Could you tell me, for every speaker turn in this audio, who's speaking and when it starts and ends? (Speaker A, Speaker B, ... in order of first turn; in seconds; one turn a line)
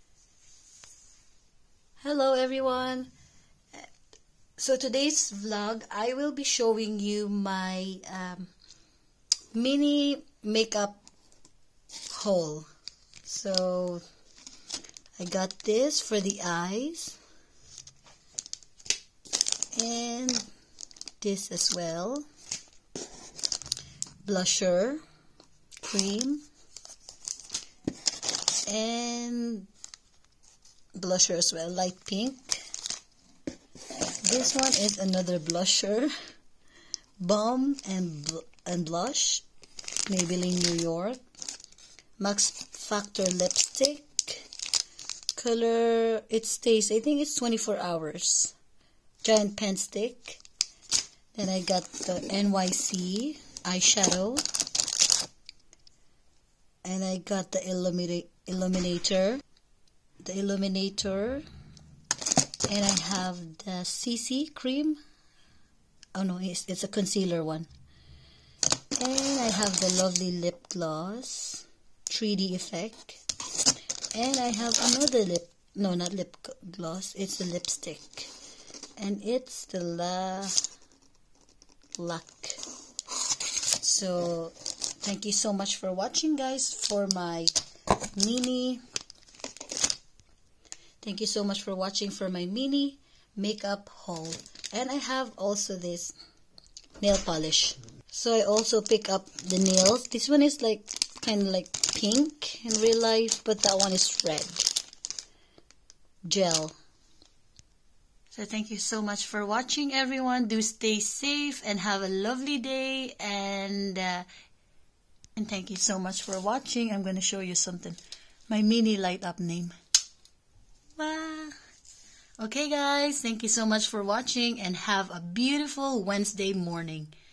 Speaker A: 2.0-3.1
Speaker A: 4.6-8.5
Speaker A: 9.5-11.0
Speaker A: 12.1-12.7
Speaker A: 13.2-14.0
Speaker A: 15.2-17.2
Speaker A: 19.7-20.4
Speaker A: 21.2-22.2
Speaker A: 24.2-25.0
Speaker A: 25.8-26.4
Speaker A: 28.7-29.7
Speaker A: 30.9-32.6
Speaker A: 34.2-36.1
Speaker A: 37.2-39.4
Speaker A: 40.1-41.2
Speaker A: 42.2-44.5
Speaker A: 45.4-48.5
Speaker A: 49.2-50.4
Speaker A: 51.3-54.4
Speaker A: 56.8-59.4
Speaker A: 60.2-61.4
Speaker A: 62.7-65.0
Speaker A: 66.1-67.7
Speaker A: 69.0-73.2
Speaker A: 74.1-78.3
Speaker A: 79.0-80.6
Speaker A: 82.0-82.6
Speaker A: 83.8-87.5
Speaker A: 88.1-88.8
Speaker A: 91.0-96.1
Speaker A: 97.0-104.7
Speaker A: 106.2-106.7
Speaker A: 108.3-114.2
Speaker A: 115.3-119.7
Speaker A: 121.0-121.5
Speaker A: 122.4-127.1